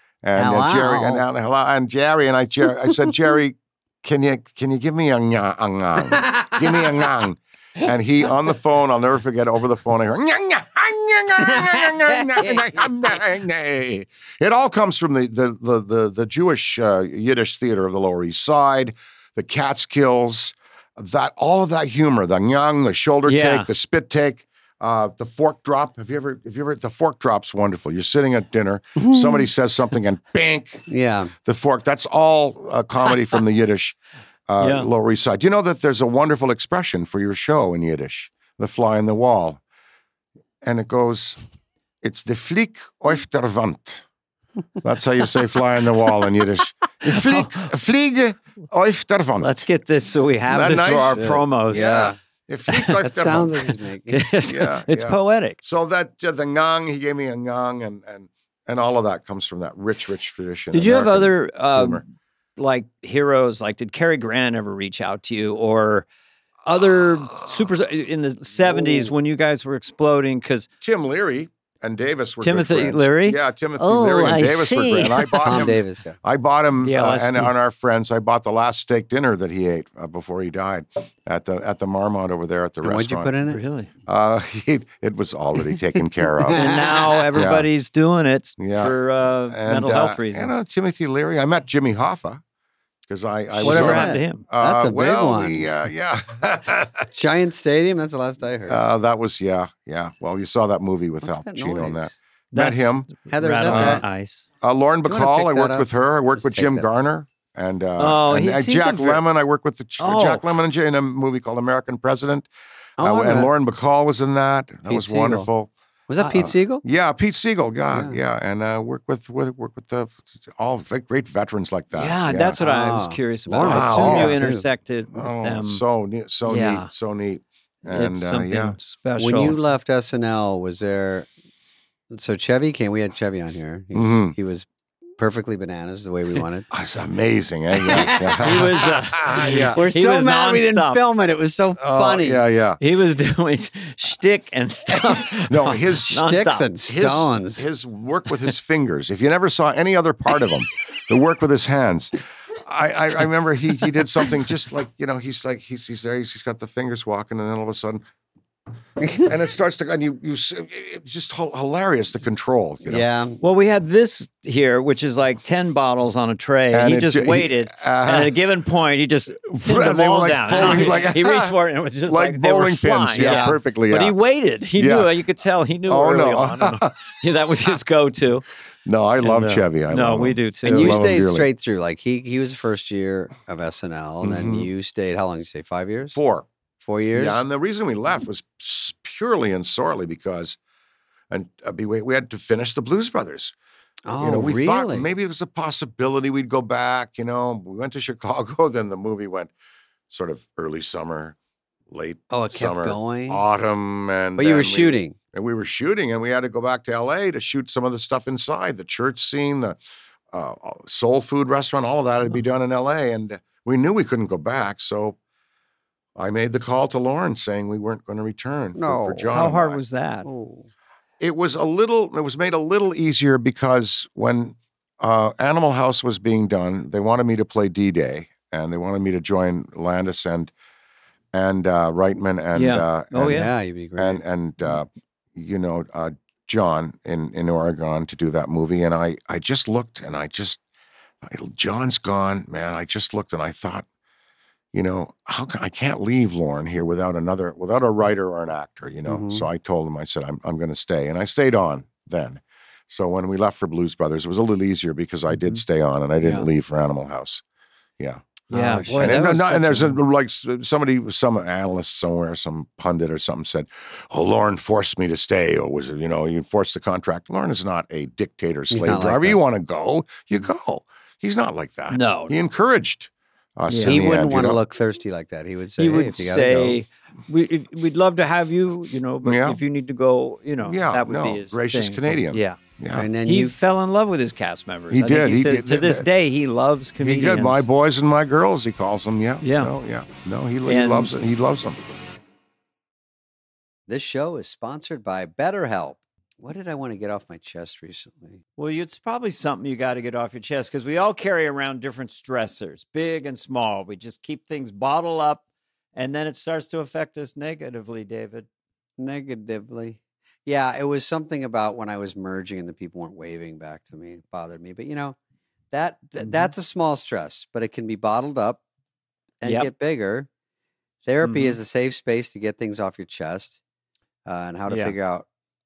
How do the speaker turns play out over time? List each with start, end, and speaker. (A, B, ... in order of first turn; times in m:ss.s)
0:00.2-0:30.8 A
0:00.4-0:01.2 B
0:06.1-0:06.6 B
0:11.4-0:12.9 B
0:23.2-0:23.7 C
0:29.0-0:29.4 B
0:30.9-0:31.3 B
0:31.4-0:34.0 A
0:34.5-0:39.6 A
0:34.6-0:34.9 C
0:40.6-0:41.4 A
0:42.0-0:44.0 A
0:44.8-0:49.5 A
0:47.0-0:47.7 C
0:49.4-0:51.9 C
0:50.5-0:53.6 A
0:51.1-0:52.2 B
0:52.7-0:52.9 C
0:53.0-0:54.2 B
0:54.1-0:55.6 C
0:54.5-1:02.0 A
1:00.7-1:02.0 C
1:02.6-1:06.0 C
1:06.6-1:10.7 C
1:08.7-1:09.1 B
1:10.8-1:23.3 A
1:12.4-1:15.7 C
1:15.4-1:16.2 B
1:16.8-1:17.5 C
1:22.8-1:23.6 B
1:23.5-1:23.9 C
1:24.0-1:26.8 A
1:26.5-1:27.2 B
1:26.5-1:30.6 C
1:27.3-1:27.7 A
1:28.6-1:32.4 A
1:33.0-1:37.1 A
1:33.5-1:35.8 B
1:33.6-1:34.4 C
1:37.1-1:38.8 B
1:38.7-1:43.1 A
1:41.2-1:42.1 B
1:42.5-1:44.4 C
1:43.3-1:44.0 B
1:43.6-1:44.0 A
1:44.6-1:52.5 A
1:45.0-1:46.9 B
1:48.0-1:49.2 C
1:50.0-1:50.4 C
1:53.0-1:53.5 B
1:53.0-1:55.7 A
1:54.9-1:55.5 B
1:56.1-1:56.8 B
1:56.2-1:56.5 C
1:56.3-2:02.6 A
1:57.9-1:58.2 B
2:01.9-2:05.8 C
2:02.6-2:04.6 B
2:03.6-2:04.4 A
2:05.1-2:08.8 A
2:06.4-2:06.9 C
2:07.8-2:09.6 C
2:09.2-2:11.3 B
2:12.1-2:16.7 B
2:13.9-2:14.3 A
2:16.7-2:19.8 A
2:17.8-2:22.4 B
2:18.4-2:21.0 C
2:21.8-2:22.8 A
2:22.8-2:26.7 C
2:25.5-2:26.2 A
2:26.1-2:27.6 B
2:26.9-2:38.0 A
2:39.1-2:43.0 A
2:42.8-2:43.4 B
2:43.4-2:58.4 C
2:46.7-2:48.4 A
2:49.4-2:51.5 A
2:52.1-2:54.1 A
2:53.2-2:53.6 B
2:54.8-2:55.1 A
2:55.9-2:56.9 A
2:58.8-3:01.5 A
2:59.2-3:01.1 C
3:00.6-3:06.2 B
3:04.2-3:04.7 A
3:06.1-3:06.5 A
3:06.8-3:07.4 B
3:07.1-3:10.6 A
3:11.3-3:13.5 A
3:14.0-3:15.1 B
3:14.2-3:19.5 A
3:20.1-3:21.4 A
3:21.9-3:29.8 A
3:22.3-3:23.4 B
3:24.4-3:25.2 B
3:30.3-3:35.2 A
3:36.2-3:39.8 A
3:38.8-3:39.5 B
3:39.3-3:40.3 C
3:40.2-3:40.7 B
3:41.2-3:50.5 A
3:51.3-4:00.6 A
3:52.5-3:53.5 C
3:53.3-3:54.2 B
4:01.2-4:03.8 A
4:04.7-4:17.4 A
4:09.1-4:09.4 B
4:16.2-4:16.5 B
4:18.0-4:18.3 A
4:18.5-4:19.2 B
4:18.5-4:20.0 C
4:18.9-4:34.6 A
4:28.7-4:29.4 B
4:31.9-4:32.3 C
4:33.7-4:34.0 C
4:33.8-4:36.8 B
4:35.8-4:42.6 C
4:39.2-4:39.6 A
4:40.6-4:43.1 A
4:42.9-4:43.5 B
4:43.2-4:47.6 C
4:44.9-4:46.0 A
4:47.0-4:51.8 A
4:49.4-4:49.7 C
4:50.6-4:51.1 C
4:53.9-4:58.4 B
4:58.6-5:05.4 C
5:05.9-5:08.5 C
5:09.0-5:15.2 B
5:15.7-5:18.6 B
5:16.2-5:16.5 C
5:19.4-5:20.3 B
5:21.0-5:23.6 B
5:21.2-5:21.6 C
5:24.2-5:25.3 B
5:24.7-5:24.9 C